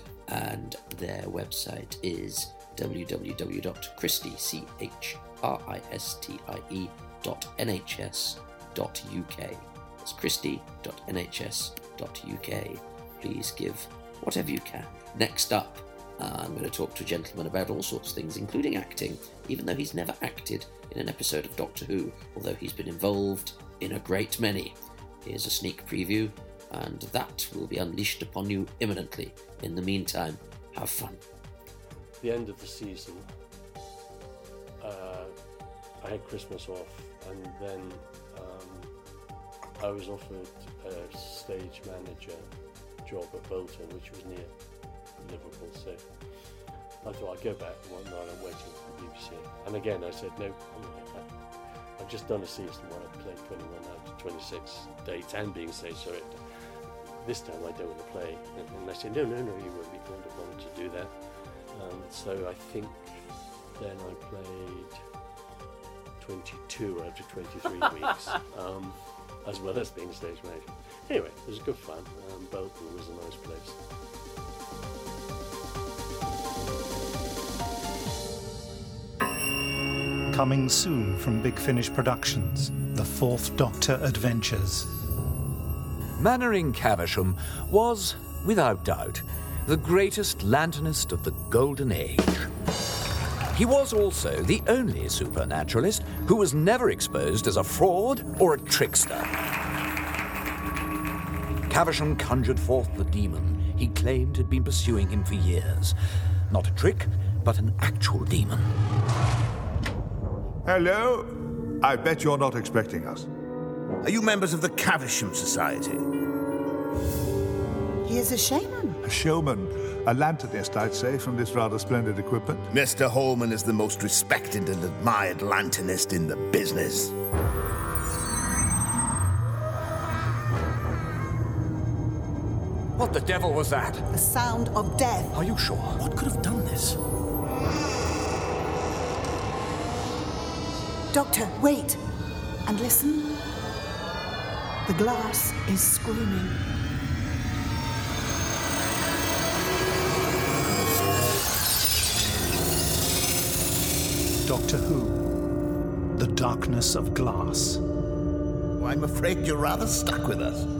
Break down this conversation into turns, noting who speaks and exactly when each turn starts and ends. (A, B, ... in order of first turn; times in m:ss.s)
0:00.3-0:31.2 A
0:32.2-0:33.3 B
0:34.8-0:39.2 B
0:39.8-1:05.2 B
1:06.2-1:13.8 B
1:20.3-1:24.9 C
1:26.2-1:32.5 D
1:33.5-1:39.3 D
1:41.7-1:45.9 D
1:46.5-1:48.7 D
1:50.6-1:53.3 E
1:54.0-1:56.1 F
1:58.0-1:59.0 G
1:59.0-2:02.7 E
2:02.7-2:07.1 F
2:13.0-2:14.1 D
2:14.1-2:15.3 G
2:15.3-2:17.0 D
2:21.1-2:22.0 G
2:22.6-2:23.4 G
2:24.8-2:26.6 G
2:34.4-2:35.3 C
2:36.1-2:37.8 C
2:38.8-2:40.7 F